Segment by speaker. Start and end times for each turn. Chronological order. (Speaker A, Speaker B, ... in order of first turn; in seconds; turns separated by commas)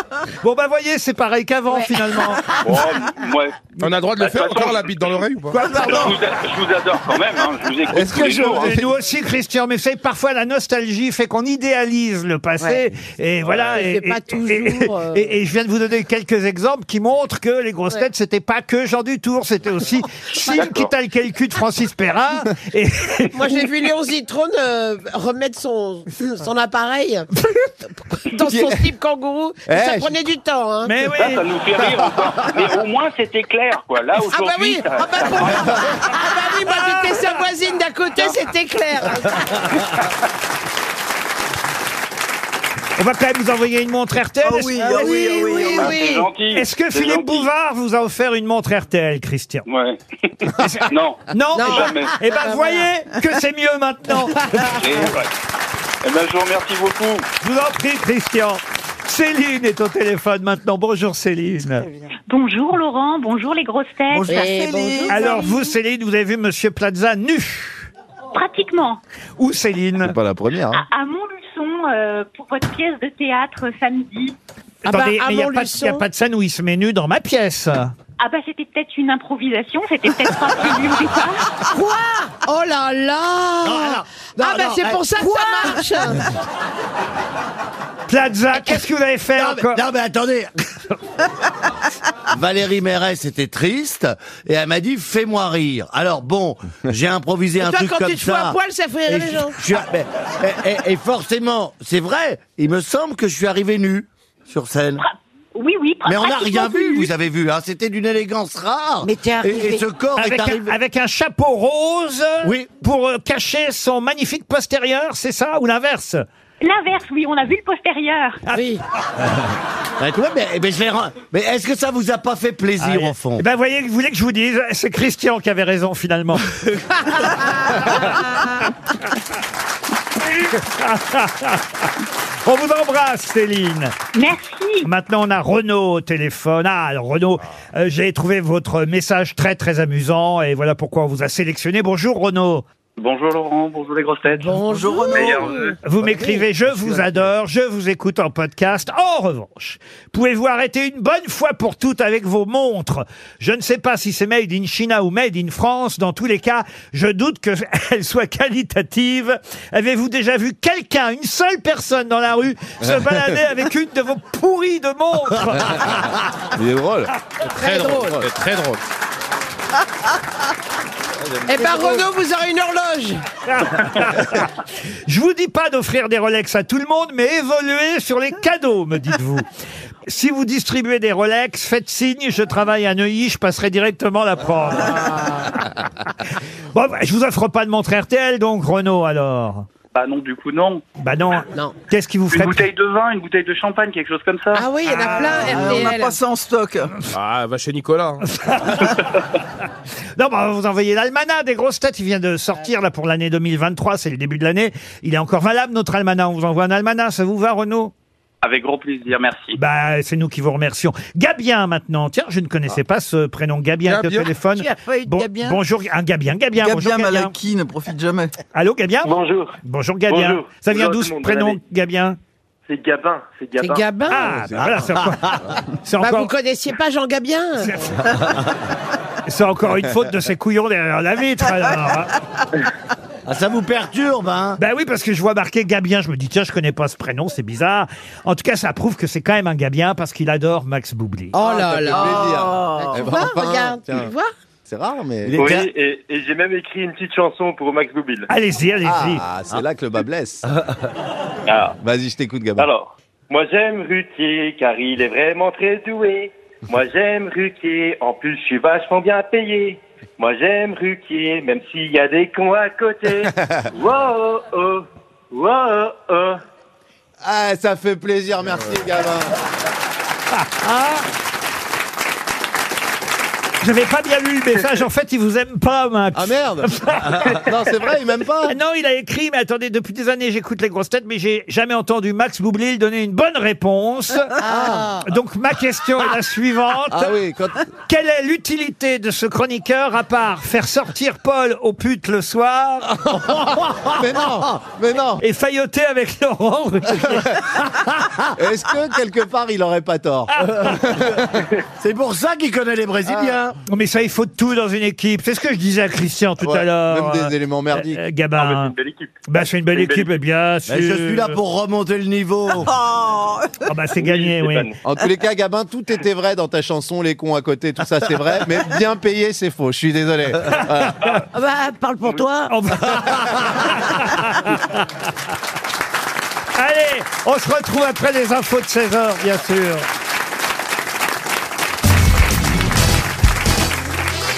Speaker A: 0.4-2.4, Speaker B: 2.6-3.6, Speaker C: 3.8-5.6, Speaker B: 4.2-5.2, Speaker A: 5.5-6.2, Speaker D: 5.6-6.2, Speaker B: 5.8-8.7, Speaker E: 7.9-8.9, Speaker A: 8.5-23.6, Speaker F: 13.6-15.3, Speaker B: 20.4-20.9, Speaker F: 23.3-27.3, Speaker F: 28.3-30.9, Speaker E: 28.5-28.8, Speaker E: 29.7-30.1, Speaker A: 30.9-31.4, Speaker B: 31.1-35.8, Speaker F: 34.2-39.5, Speaker A: 36.7-37.2, Speaker A: 43.0-45.9, Speaker D: 44.4-46.0, Speaker F: 44.8-46.3, Speaker B: 45.8-47.5, Speaker A: 46.5-49.6, Speaker B: 49.7-50.0, Speaker A: 50.6-54.7, Speaker B: 50.9-52.1, Speaker F: 51.6-52.9, Speaker B: 54.7-55.3, Speaker B: 56.0-57.3, Speaker A: 57.4-61.9, Speaker G: 62.3-64.7, Speaker D: 64.1-65.5, Speaker F: 64.3-65.5, Speaker A: 65.1-67.9, Speaker G: 68.3-69.0, Speaker A: 69.4-70.2, Speaker E: 70.0-70.8, Speaker G: 70.7-74.4, Speaker A: 74.8-78.0, Speaker F: 74.9-76.0, Speaker G: 78.2-81.4, Speaker F: 81.7-86.2, Speaker H: 83.6-85.7, Speaker I: 85.2-85.5, Speaker A: 88.1-89.8, Speaker H: 89.3-90.5, Speaker H: 92.3-98.6, Speaker F: 97.6-99.6, Speaker H: 99.1-105.0, Speaker G: 105.0-107.1, Speaker H: 106.0-110.8, Speaker I: 109.0-109.9, Speaker A: 110.2-116.2, Speaker H: 112.4-112.7, Speaker G: 116.6-118.4, Speaker A: 118.5-118.8, Speaker F: 118.5-118.8, Speaker H: 120.0-123.4, Speaker A: 122.8-126.5, Speaker F: 127.1-128.2, Speaker A: 130.3-131.9, Speaker A: 132.4-134.0, Speaker G: 134.1-134.9, Speaker A: 134.8-142.6, Speaker J: 143.0-144.6, Speaker F: 144.4-146.4, Speaker D: 144.6-145.6, Speaker J: 145.1-145.7, Speaker A: 145.8-165.9, Speaker E: 166.6-167.1, Speaker C: 167.5-168.8, Speaker F: 167.6-168.2, Speaker F: 171.5-173.2, Speaker A: 173.5-174.5, Speaker A: 175.1-179.4, Speaker A: 180.1-185.8, Speaker A: 186.7-189.7, Speaker J: 189.9-190.8, Speaker A: 191.0-192.7, Speaker J: 192.3-194.7, Speaker F: 194.5-196.2, Speaker A: 194.9-195.6, Speaker D: 195.2-196.9, Speaker C: 197.1-198.3, Speaker A: 198.4-199.1, Speaker A: 200.2-207.9, Speaker J: 208.4-209.5, Speaker A: 209.6-217.3, Speaker C: 213.9-214.3, Speaker I: 214.5-215.6, Speaker D: 216.6-218.3, Speaker A: 218.5-222.2, Speaker K: 219.0-219.6, Speaker K: 220.1-221.6, Speaker K: 222.7-223.8, Speaker F: 223.6-224.4, Speaker A: 224.1-226.3, Speaker H: 224.6-225.3, Speaker F: 226.0-227.9, Speaker A: 227.6-227.9, Speaker A: 229.3-232.1, Speaker H: 233.3-234.6, Speaker A: 234.6-241.4, Speaker F: 241.4-244.3, Speaker D: 241.4-243.2, Speaker E: 241.4-244.1, Speaker E: 244.7-245.6, Speaker H: 245.2-245.6, Speaker K: 245.3-248.3, Speaker A: 248.3-249.2, Speaker E: 248.9-250.4, Speaker K: 251.5-251.8, Speaker E: 251.8-252.7, Speaker K: 252.6-266.4, Speaker E: 267.2-269.3, Speaker A: 270.4-271.1, Speaker A: 273.6-277.3, Speaker E: 276.1-278.6, Speaker A: 278.5-284.4, Speaker F: 284.4-285.1, Speaker E: 284.4-284.9, Speaker A: 285.0-287.1, Speaker E: 286.9-287.6, Speaker A: 287.9-293.0, Speaker E: 293.9-295.2, Speaker H: 293.9-294.2, Speaker A: 295.2-297.3, Speaker E: 297.0-297.4, Speaker E: 298.4-301.4, Speaker H: 301.8-303.6, Speaker E: 303.1-303.4, Speaker A: 303.7-308.8, Speaker E: 306.4-308.0, Speaker K: 308.4-309.1, Speaker A: 309.3-311.4, Speaker K: 309.7-310.1, Speaker H: 310.7-312.7, Speaker D: 312.7-313.5, Speaker A: 313.6-314.7, Speaker K: 314.0-314.8, Speaker E: 314.8-321.0, Speaker I: 321.3-322.6, Speaker A: 322.5-324.8, Speaker A: 326.6-329.9